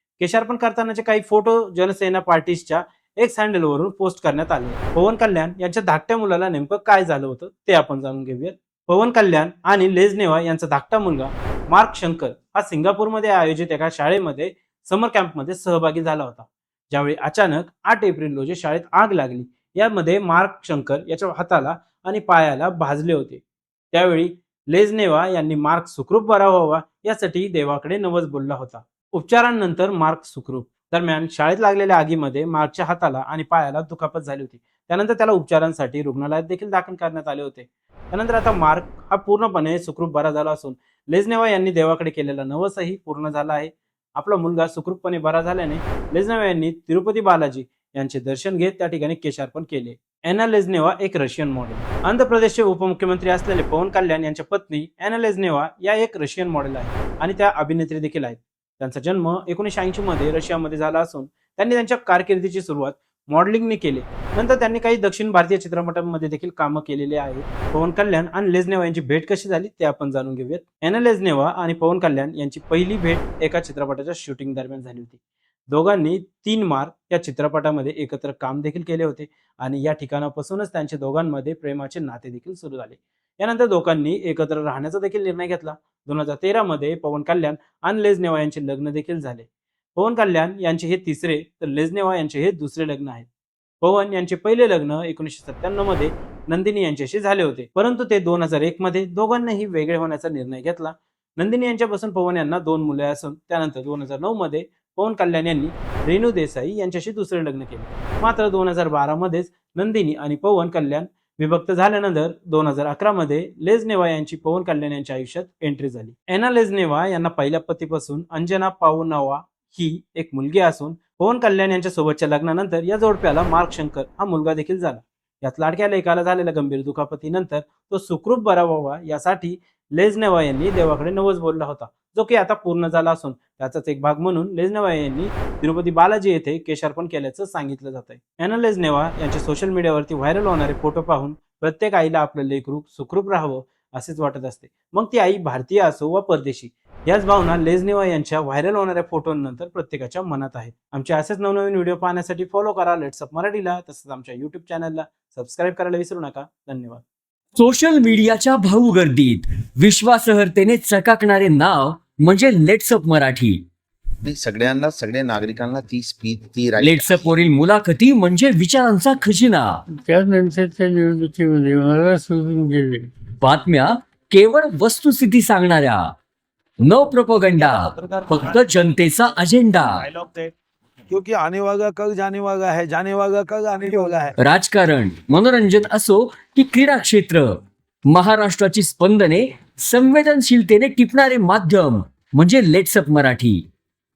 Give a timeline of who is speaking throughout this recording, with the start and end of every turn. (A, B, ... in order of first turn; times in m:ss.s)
0:00.2-0:23.4 A
0:23.9-1:15.2 A
1:15.7-1:33.3 A
1:33.8-2:37.0 A
2:37.6-2:43.6 B
2:44.2-2:47.3 C
2:46.8-2:49.8 B
2:50.0-2:53.1 D
2:53.4-2:56.1 B
2:56.8-3:00.1 B
2:57.6-2:58.6 E
3:00.0-3:00.5 E
3:01.1-3:04.3 E
3:04.4-3:07.5 B
3:08.1-3:13.6 B